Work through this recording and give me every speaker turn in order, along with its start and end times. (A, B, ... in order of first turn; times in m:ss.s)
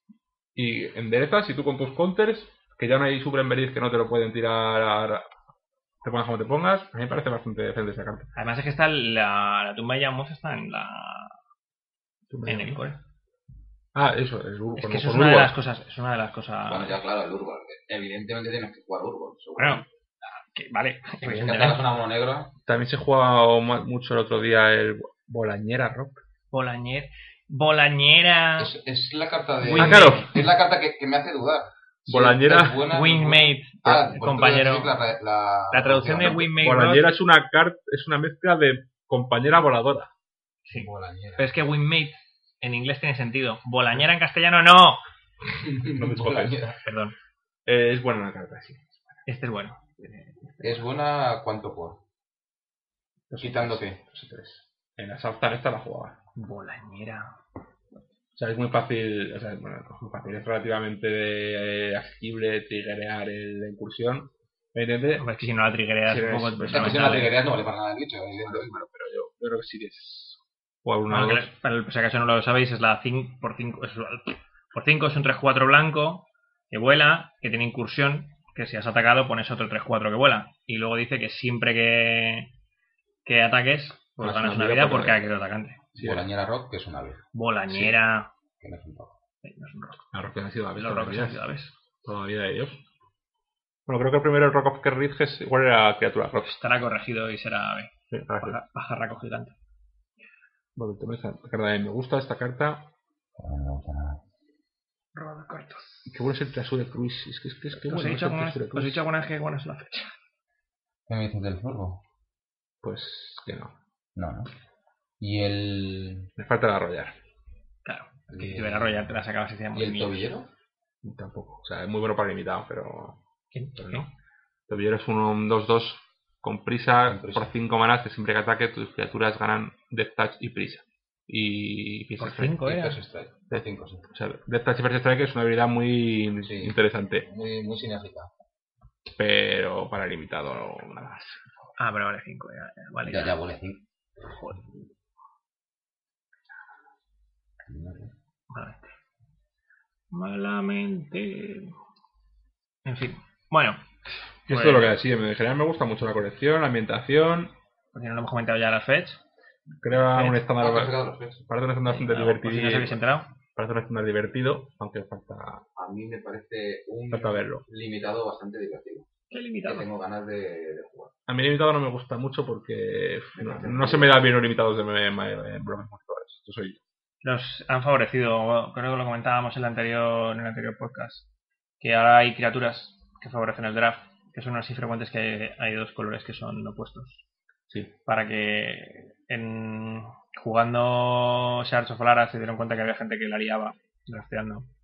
0:00.5-0:05.3 A
0:06.0-0:08.3 A
0:08.3-0:11.4 B
0:12.3-0:12.8 A
0:12.4-0:13.0 B
0:13.9-0:15.5 A
0:14.8-0:17.0 B
0:16.7-0:19.9 C
0:19.6-0:21.8 B
0:21.2-0:22.5 C
0:22.6-0:26.2 A
0:26.5-0:28.7 B
0:28.6-0:36.4 C
0:29.6-0:30.2 B
0:29.7-0:30.5 A
0:32.1-0:32.8 A
0:32.9-0:34.9 B
0:35.7-0:37.1 B
0:36.2-0:40.1 A
0:40.7-0:45.0 B
0:40.7-0:41.5 C
0:45.4-0:46.8 C
0:45.8-0:46.7 A
0:46.8-0:47.1 B
0:47.6-0:49.2 A
0:49.2-0:50.8 B
0:50.6-0:52.0 C
0:53.3-0:56.2 A
0:53.4-0:54.0 C
0:56.4-0:57.4 B
0:58.3-1:05.3 A
1:05.2-1:07.4 B
1:06.0-1:07.3 A
1:06.6-1:08.8 C
1:08.4-1:11.5 A
1:11.1-1:22.5 B
1:23.2-1:25.8 B
1:24.2-1:25.2 A
1:26.0-1:26.3 A
1:26.0-1:27.2 C
1:27.3-1:28.3 B
1:28.6-1:29.1 C
1:29.4-1:30.1 B
1:30.1-1:31.4 A
1:30.8-1:31.7 B
1:32.0-1:32.8 A
1:33.8-1:36.6 A
1:36.4-1:39.5 B
1:38.1-1:38.6 A
1:40.8-1:42.9 A
1:43.4-1:44.2 C
1:45.1-1:46.1 B
1:46.1-1:49.0 A
1:47.7-1:50.1 B
1:51.1-1:52.0 C
1:52.8-1:53.8 A
1:54.2-1:54.5 C
1:55.2-1:56.3 C
1:56.4-1:57.2 A
1:57.8-2:00.2 B
1:58.3-1:59.2 C
1:59.7-2:00.5 C
2:01.0-2:03.2 A
2:03.5-2:04.1 B
2:03.8-2:04.0 A
2:04.7-2:12.6 A
2:07.0-2:07.5 C
2:12.2-2:13.0 B
2:12.6-2:14.1 C
2:13.5-2:17.3 A
2:16.4-2:18.3 C
2:19.1-2:21.4 A
2:21.8-2:23.4 B
2:23.0-2:23.8 C
2:24.2-2:24.6 B
2:27.6-2:28.1 C
2:28.5-2:28.9 B
2:30.1-2:31.7 B
2:32.8-2:35.0 B
2:34.5-2:37.5 A
2:37.9-2:39.2 B
2:39.8-2:40.9 A
2:40.0-2:40.4 B
2:40.4-2:41.4 C
2:41.4-2:43.0 A
2:41.8-2:43.3 B
2:43.5-2:45.6 A
2:45.8-2:49.1 C
2:47.1-2:47.6 A
2:49.3-2:49.9 B
2:49.6-2:51.1 C
2:51.3-2:56.8 A
2:53.3-2:54.4 C
2:57.2-3:01.2 B
3:01.8-3:07.2 B
3:07.7-3:07.9 A
3:08.0-3:14.7 B